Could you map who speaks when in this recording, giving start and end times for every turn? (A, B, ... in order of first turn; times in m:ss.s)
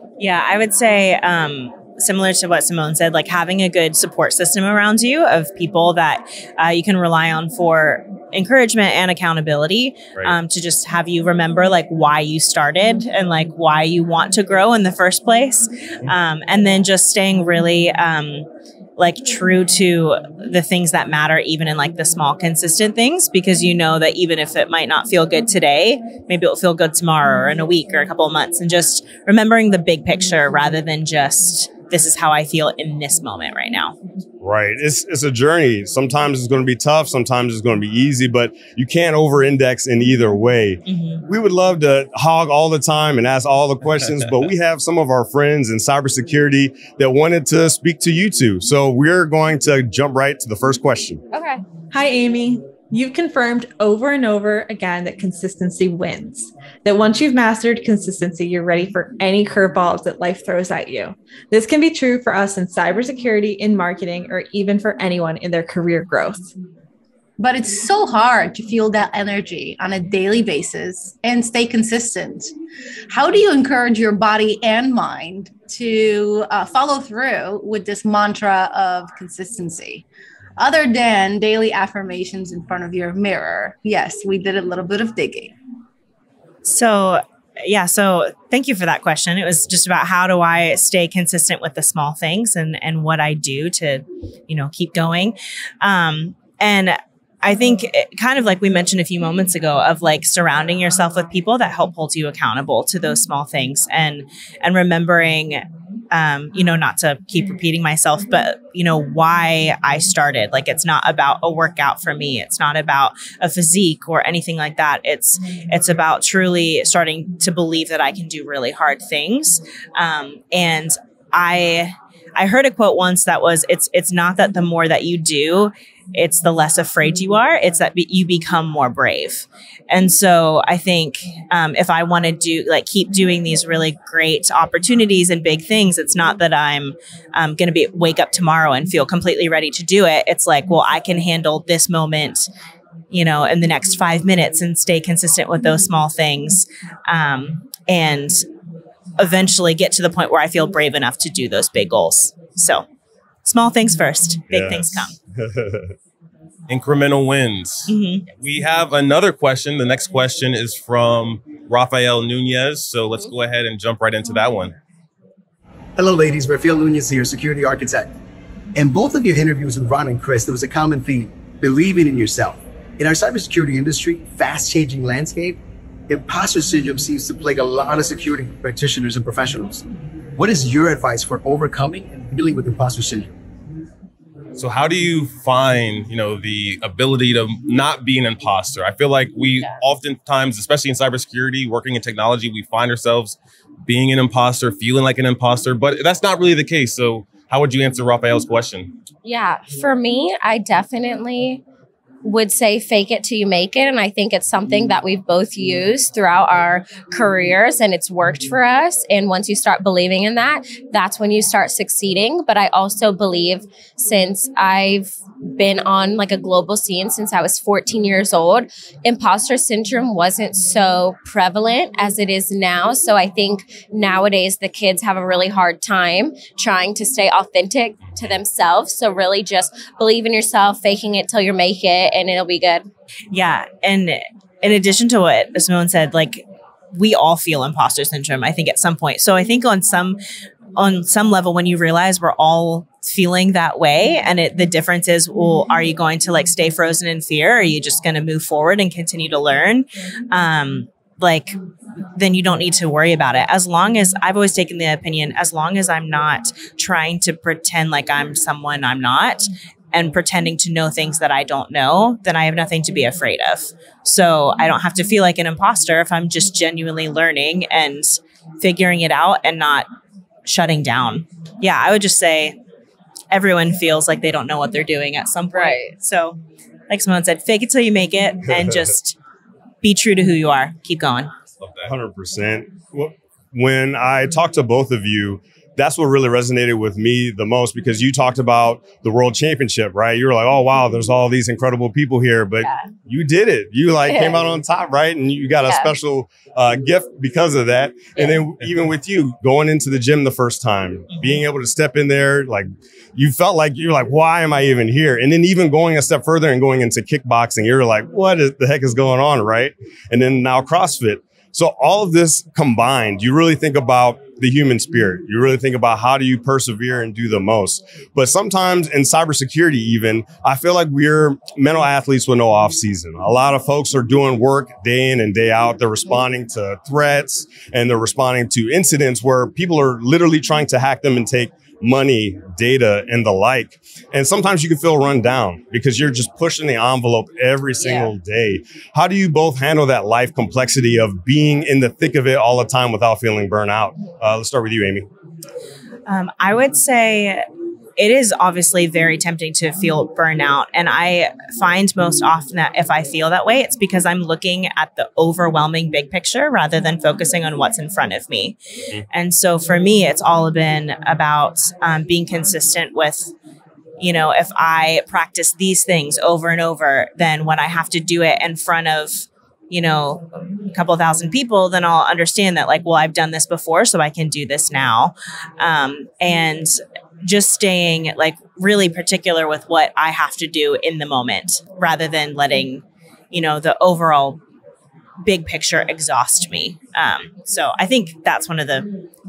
0:00.2-0:34.0 A
0:34.4-0:51.2 B
0:40.9-0:41.2 A
0:51.3-0:51.6 C
0:51.9-1:06.5 D
1:07.4-1:12.5 E
1:13.1-1:20.0 E
1:20.6-1:25.5 E
1:26.6-2:22.5 A
2:23.1-2:28.4 A
2:29.2-2:32.8 A
2:33.4-2:35.2 A
2:34.5-2:35.9 B
2:36.7-2:44.7 F
2:37.9-2:38.2 A
2:46.0-2:48.1 G
2:48.7-2:59.8 G
3:00.4-3:03.3 G
3:04.6-3:18.9 F
3:19.2-3:21.6 C
3:22.2-3:52.9 C
3:53.3-4:00.2 A
4:00.8-4:11.6 A
4:12.1-4:29.9 A
4:30.4-4:32.6 A
4:33.3-4:36.4 A
4:35.5-4:35.9 C
4:36.9-4:39.2 A
4:38.5-4:38.9 B
4:39.8-4:41.3 A
4:41.6-4:41.9 F
4:41.8-5:45.1 B
4:54.0-4:54.4 C
4:55.6-4:55.9 C
4:58.2-4:58.4 C
5:37.8-5:38.1 C
5:46.1-5:47.4 A
5:48.0-5:58.6 A
5:59.1-6:03.3 A
6:04.0-6:24.4 A
6:25.2-6:28.9 A